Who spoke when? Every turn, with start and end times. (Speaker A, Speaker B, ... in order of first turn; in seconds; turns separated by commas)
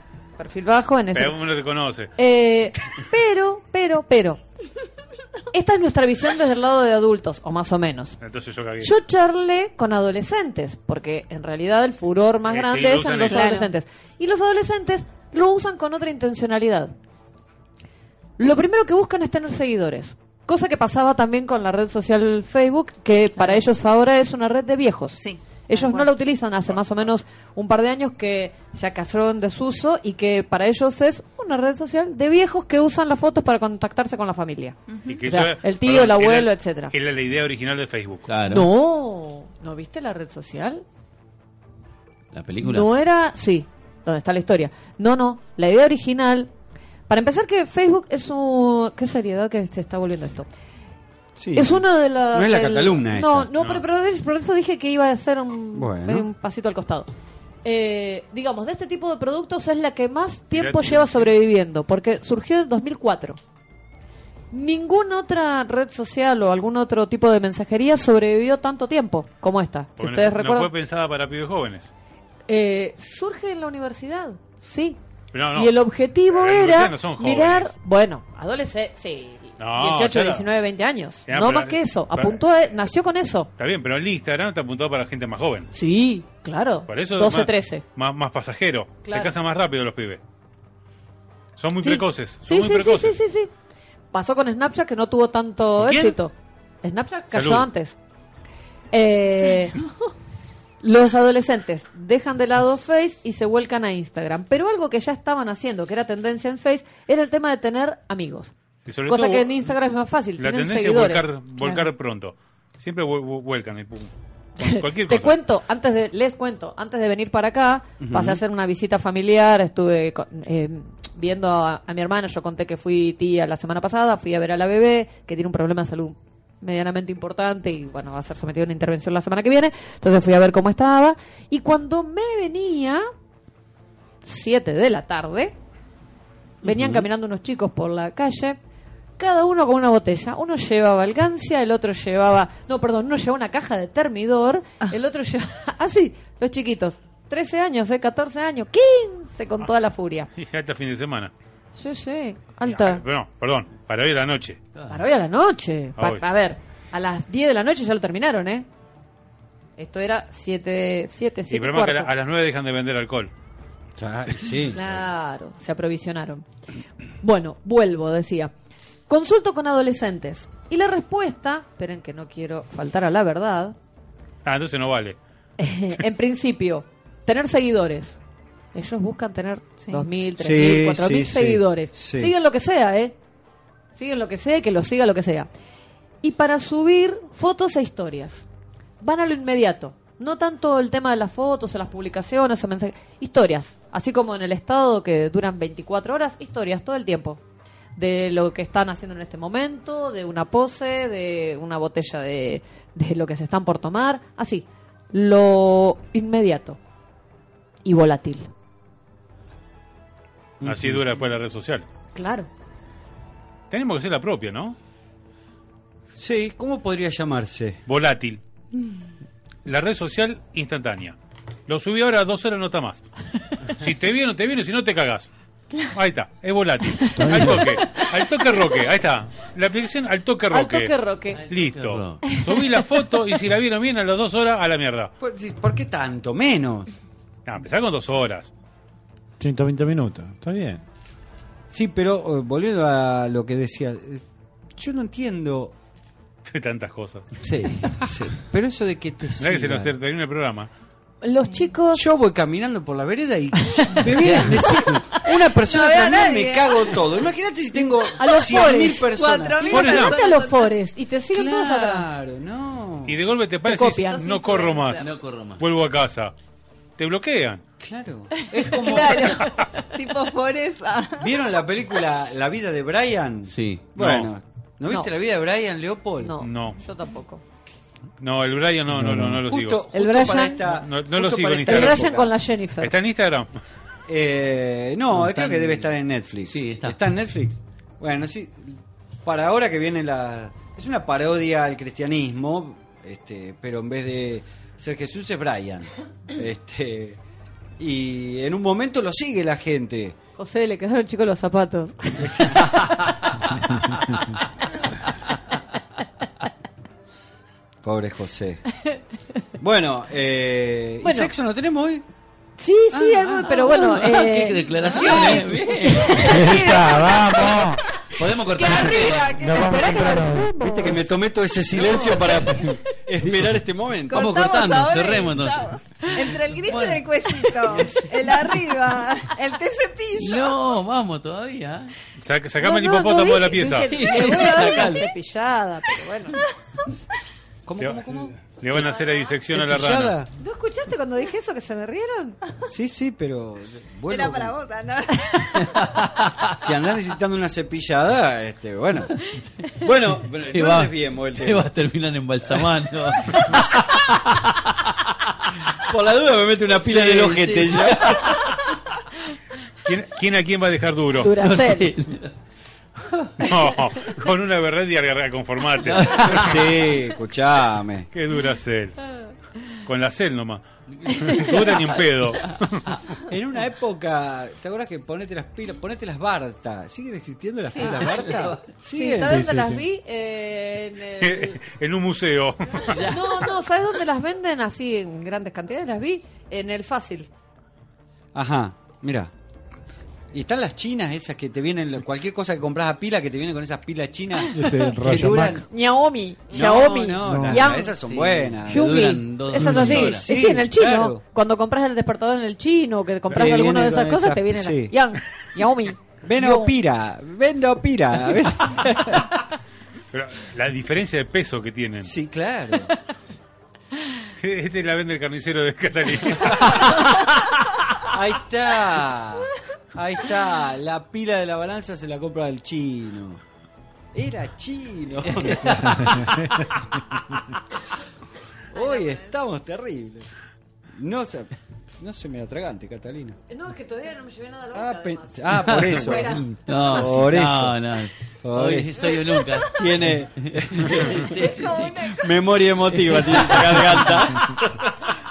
Speaker A: 0.4-1.4, Speaker B: 1.1-2.1, Speaker A: 2.2-4.4, Speaker A: 5.5-8.2, Speaker B: 8.2-8.9, Speaker A: 8.8-16.9, Speaker B: 12.5-13.6, Speaker C: 13.3-13.7, Speaker A: 18.4-36.9, Speaker C: 23.4-23.6, Speaker C: 25.1-26.1, Speaker C: 34.9-35.2, Speaker B: 35.1-38.3, Speaker D: 38.3-38.7, Speaker A: 38.5-40.8, Speaker D: 42.3-42.9, Speaker A: 42.6-46.5, Speaker A: 47.1-50.5, Speaker E: 51.4-53.5, Speaker A: 51.5-57.1, Speaker B: 53.6-53.8, Speaker E: 55.7-56.3, Speaker A: 57.6-63.4, Speaker B: 60.5-61.3, Speaker A: 64.5-70.7, Speaker B: 70.0-71.9, Speaker A: 72.5-75.0, Speaker B: 75.3-75.7, Speaker A: 75.5-83.5, Speaker B: 76.3-77.7, Speaker B: 79.6-80.5, Speaker B: 81.3-82.4, Speaker B: 83.6-85.7, Speaker A: 85.7-87.8, Speaker B: 86.9-90.2, Speaker A: 89.0-89.3, Speaker B: 91.6-93.2, Speaker A: 91.8-93.5, Speaker A: 94.1-98.0, Speaker B: 95.8-96.2, Speaker B: 97.3-97.7, Speaker A: 98.9-99.8, Speaker C: 99.4-99.8, Speaker A: 100.8-108.5, Speaker B: 108.9-109.6, Speaker A: 109.1-111.9, Speaker B: 110.4-115.4, Speaker A: 114.6-133.1, Speaker E: 118.0-118.4, Speaker A: 134.2-135.6, Speaker A: 136.6-138.6, Speaker A: 139.2-150.3, Speaker B: 150.4-151.3, Speaker A: 151.8-153.0, Speaker B: 152.7-154.6, Speaker A: 154.9-158.7, Speaker B: 156.0-156.2, Speaker A: 159.8-162.1, Speaker B: 161.5-163.3, Speaker E: 164.0-164.9, Speaker A: 164.7-166.4, Speaker A: 167.2-168.5, Speaker A: 169.1-173.8, Speaker B: 174.4-175.2, Speaker A: 175.6-178.2, Speaker A: 178.7-183.2, Speaker E: 180.4-182.3, Speaker A: 184.0-185.5, Speaker A: 186.2-188.5, Speaker A: 189.0-197.4, Speaker A: 198.0-206.8, Speaker A: 207.8-208.5, Speaker E: 210.6-211.0, Speaker B: 210.6-211.9, Speaker A: 212.2-212.5, Speaker B: 213.7-214.8, Speaker E: 216.1-217.8, Speaker B: 217.9-218.4, Speaker B: 219.7-221.2, Speaker B: 221.7-223.0, Speaker B: 223.8-225.3, Speaker B: 225.9-230.9, Speaker F: 227.1-227.8, Speaker A: 230.5-231.4, Speaker D: 231.4-232.2, Speaker B: 231.5-235.1, Speaker E: 235.2-236.9, Speaker B: 237.5-238.5, Speaker F: 239.4-240.8, Speaker E: 241.7-244.2, Speaker E: 244.8-245.8, Speaker B: 246.5-247.3, Speaker E: 247.4-249.9, Speaker B: 249.4-250.7, Speaker A: 251.2-252.0, Speaker E: 251.9-259.6, Speaker A: 253.7-254.1, Speaker D: 254.2-254.7, Speaker C: 255.5-257.0, Speaker A: 258.1-262.1, Speaker C: 259.1-260.7, Speaker B: 259.7-260.2, Speaker E: 261.3-263.2, Speaker B: 263.1-266.3, Speaker A: 263.7-265.0, Speaker C: 264.5-265.0, Speaker D: 265.0-265.6, Speaker B: 267.0-267.6, Speaker E: 267.8-269.5, Speaker C: 268.6-271.3, Speaker E: 271.2-276.4, Speaker D: 273.5-273.9, Speaker B: 274.0-274.3, Speaker A: 276.2-277.4, Speaker B: 276.4-276.8, Speaker B: 278.2-279.8, Speaker F: 279.0-279.4, Speaker E: 279.4-282.3, Speaker A: 279.9-280.6, Speaker B: 280.7-282.1, Speaker A: 281.7-282.9, Speaker B: 282.8-283.5, Speaker E: 284.1-297.2, Speaker D: 285.1-285.9, Speaker D: 286.5-287.0, Speaker E: 297.8-300.2, Speaker A: 300.4-302.6, Speaker E: 302.2-303.0, Speaker E: 307.8-308.6, Speaker E: 309.6-312.1, Speaker A: 311.0-311.3, Speaker A: 312.6-316.7, Speaker E: 312.9-313.6, Speaker D: 313.6-316.8, Speaker C: 314.9-315.4, Speaker C: 316.1-317.2, Speaker F: 316.3-317.8, Speaker D: 318.2-319.8, Speaker C: 318.5-320.3, Speaker F: 319.4-320.9, Speaker E: 320.6-324.3, Speaker D: 321.7-322.6, Speaker C: 324.1-330.5, Speaker D: 324.1-328.6, Speaker D: 330.2-331.9, Speaker B: 332.2-333.9, Speaker A: 332.6-336.4, Speaker D: 333.8-335.1, Speaker C: 334.4-334.9, Speaker E: 337.7-338.4, Speaker B: 337.8-340.2, Speaker C: 338.9-339.3, Speaker E: 339.5-340.2, Speaker D: 339.8-340.1, Speaker A: 340.4-342.4, Speaker E: 342.7-344.6, Speaker C: 344.1-345.7, Speaker D: 345.6-346.5, Speaker E: 346.5-349.2, Speaker E: 349.7-351.7, Speaker D: 350.5-354.5, Speaker E: 355.8-358.4, Speaker D: 356.8-358.4, Speaker B: 359.9-361.4, Speaker A: 361.2-361.9, Speaker D: 361.4-362.3, Speaker D: 363.1-363.5, Speaker B: 363.4-366.4, Speaker D: 365.9-366.6, Speaker E: 366.1-368.1, Speaker B: 368.1-369.0, Speaker B: 369.9-372.8, Speaker D: 370.9-371.9, Speaker E: 373.3-379.5, Speaker A: 377.7-378.3, Speaker D: 377.8-378.6, Speaker A: 378.9-381.6, Speaker F: 379.2-379.9, Speaker B: 381.2-383.0, Speaker D: 382.9-383.2, Speaker A: 383.0-387.3, Speaker E: 388.3-389.3, Speaker E: 390.3-395.6, Speaker A: 394.4-397.9, Speaker F: 394.5-395.7, Speaker E: 396.5-401.2, Speaker F: 397.2-397.7, Speaker D: 398.0-400.3, Speaker A: 398.7-406.7, Speaker E: 403.3-405.0, Speaker E: 406.2-409.4, Speaker B: 410.1-412.1, Speaker E: 412.0-412.9, Speaker B: 414.4-416.9, Speaker E: 416.5-417.1, Speaker E: 418.1-423.4, Speaker E: 424.1-426.5, Speaker D: 425.4-426.2, Speaker E: 428.7-430.3, Speaker C: 428.7-429.3, Speaker E: 430.9-433.4, Speaker A: 433.5-437.1, Speaker E: 434.7-437.8, Speaker D: 435.7-442.2, Speaker E: 438.4-441.5, Speaker C: 441.6-442.2, Speaker E: 442.0-444.7, Speaker D: 442.9-444.1